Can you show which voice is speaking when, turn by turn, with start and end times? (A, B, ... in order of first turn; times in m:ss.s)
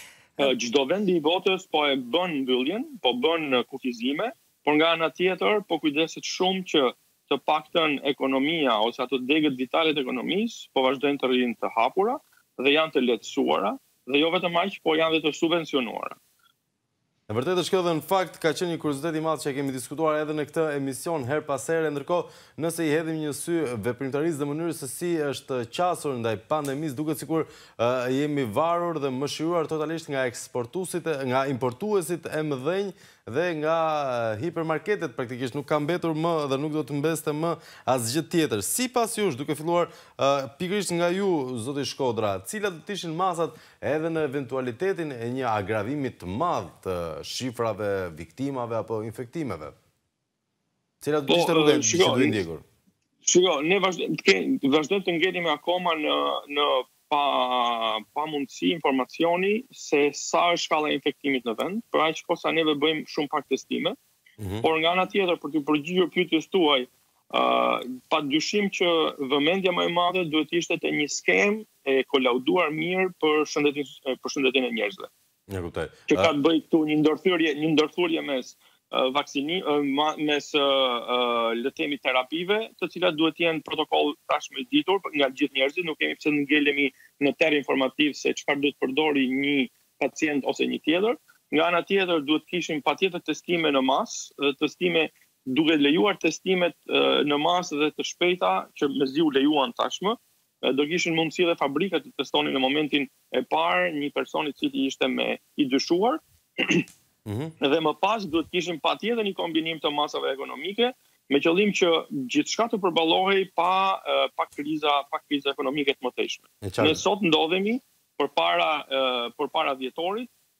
0:00.4-0:16.2 A
0:17.3-0:49.7 B
0:51.0-0:52.6 B
0:51.3-0:52.4 A
0:53.2-1:04.0 A
1:04.4-1:04.7 B
1:04.6-1:15.1 A
1:15.5-1:16.3 B
1:16.1-1:46.8 A
1:47.2-1:47.5 B
1:47.6-2:00.3 A
1:56.6-1:57.0 B